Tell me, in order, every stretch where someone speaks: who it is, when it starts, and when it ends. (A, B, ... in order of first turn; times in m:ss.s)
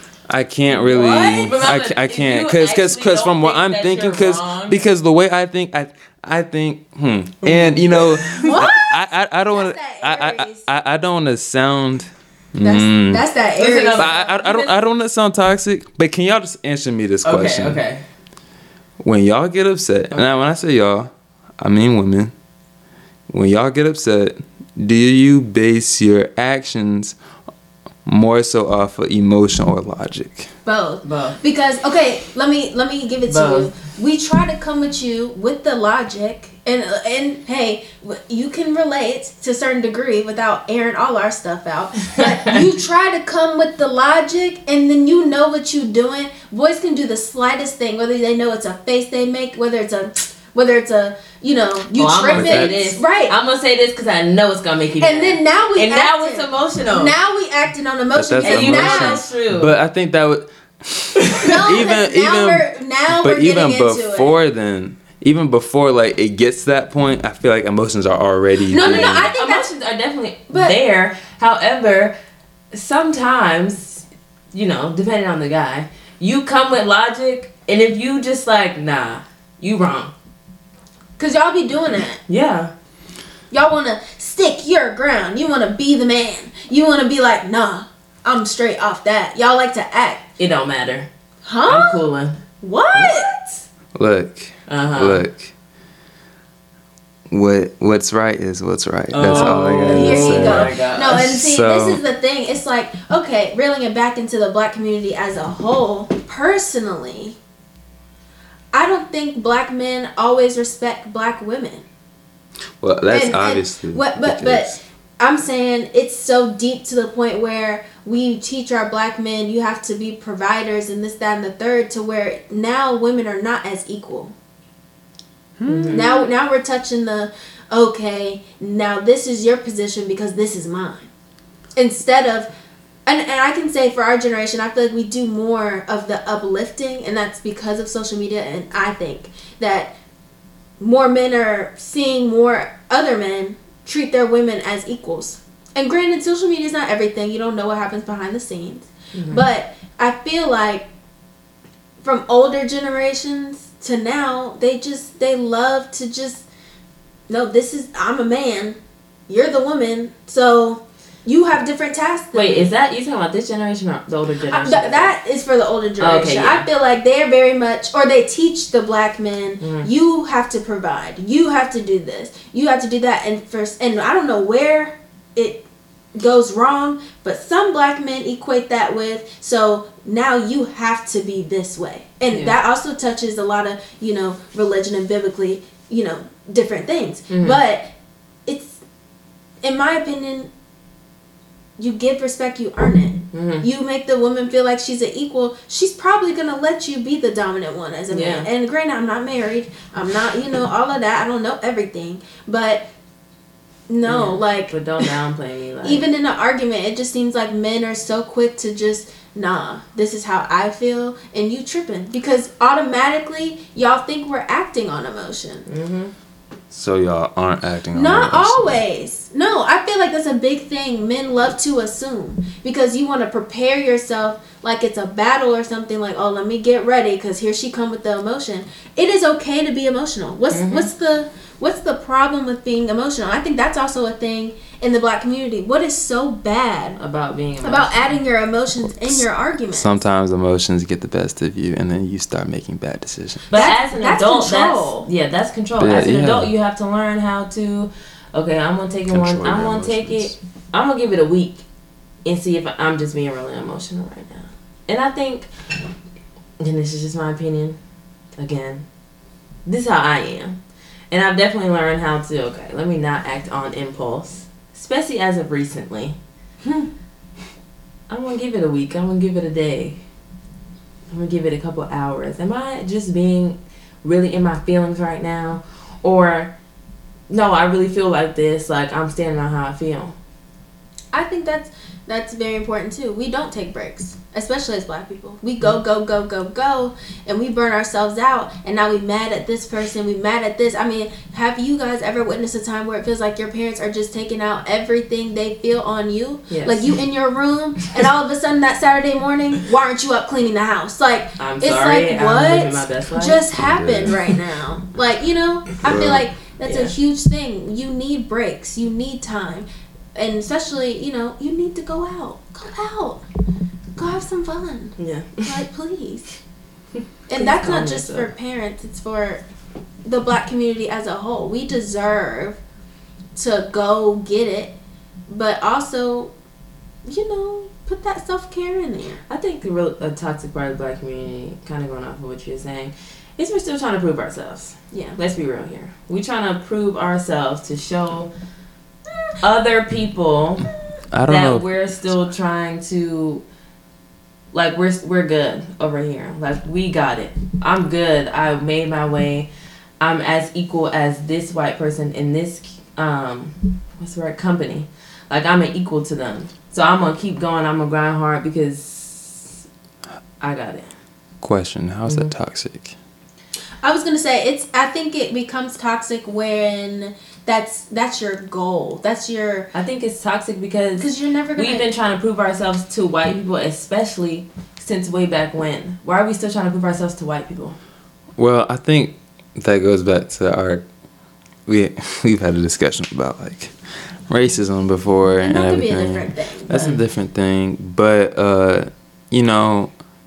0:00.3-0:13.2 A
0:00.7-0:01.7 B
0:01.0-0:04.9 C
0:07.4-0:08.6 C
0:08.4-0:09.0 B
0:09.5-0:10.6 B
0:12.6-0:14.1 B
0:13.6-0:14.7 C
0:14.0-0:17.8 A
0:17.2-0:18.0 C
0:19.0-0:22.3 A
0:23.3-0:27.2 A
0:28.0-0:30.5 A
0:30.6-0:53.3 B
0:31.0-0:31.4 C
0:33.3-0:33.7 C
0:42.2-0:42.6 C
0:51.9-0:57.2 C
0:52.3-0:52.8 A
0:55.0-0:59.2 B
0:58.1-1:09.3 A
0:58.4-0:59.7 C
1:01.4-1:04.3 B
1:08.7-1:09.7 B
1:08.7-1:12.1 C
1:12.7-1:20.1 C
1:21.2-1:22.2 B
1:22.3-1:22.7 C
1:23.5-1:30.3 B
1:30.4-1:31.1 C
1:31.4-1:32.1 B
1:31.7-1:32.4 C
1:32.6-1:33.4 B
1:32.9-1:33.5 C
1:33.9-1:35.5 A
1:34.7-1:35.2 C
1:37.3-1:42.0 A
1:39.1-1:41.3 C
1:39.3-1:47.4 B
1:48.7-1:51.8 B
1:52.8-1:54.8 A
1:53.1-2:04.3 B
2:05.6-2:06.0 A
2:05.6-2:06.3 C
2:05.9-2:11.1 B
2:11.8-2:12.5 B
2:13.0-2:19.9 B
2:20.8-2:30.8 B
2:29.1-2:29.4 C
2:32.0-2:36.4 B
2:37.3-2:42.7 B
2:42.3-2:45.1 C
2:44.5-3:07.9 B
2:46.0-2:46.7 C
2:49.6-2:49.9 C
3:07.3-3:07.6 C
3:08.4-3:08.8 B
3:09.6-3:10.5 B
3:11.8-3:22.8 B
3:13.3-3:13.6 C
3:18.1-3:18.5 C
3:23.9-3:25.1 B
3:24.0-3:26.1 C
3:25.8-3:35.7 B
3:35.7-3:36.1 C
3:36.7-3:38.8 A
3:37.9-3:57.0 B
3:50.5-3:50.9 C
3:57.0-3:58.1 C
3:57.6-4:00.0 B
3:58.8-4:03.4 A
4:03.5-4:11.6 C
4:03.5-4:05.0 B
4:05.8-4:06.5 A
4:09.1-4:10.3 A
4:12.2-4:15.5 C
4:16.6-4:17.8 C
4:18.4-4:18.8 C
4:19.6-4:20.6 C
4:21.1-4:26.2 C
4:28.1-4:30.0 C
4:31.1-4:36.5 C
4:37.3-4:40.2 C
4:41.1-5:13.2 B
4:56.5-4:56.9 C
5:01.4-5:03.4 C
5:03.6-5:04.2 A
5:05.8-5:06.2 A
5:06.6-5:06.9 C
5:14.0-5:16.4 B
5:15.0-5:15.6 C
5:17.3-5:19.4 B
5:17.3-5:18.3 C
5:20.0-5:22.6 B
5:23.3-5:24.8 B
5:25.3-5:26.3 B
5:27.0-5:29.2 B
5:29.3-5:38.3 C
5:34.9-5:35.2 B
5:39.4-5:40.7 C
5:41.1-5:41.6 A
5:41.3-5:43.4 C
5:44.5-5:49.5 C
5:50.0-5:59.6 C
6:00.4-6:00.9 C
6:01.4-6:02.9 A
6:02.1-6:02.3 C
6:03.8-6:09.7 B
6:09.7-6:17.8 C
6:11.0-6:11.8 B
6:18.4-6:20.8 A
6:21.7-6:29.9 A
6:25.4-6:26.9 B
6:26.7-6:27.0 C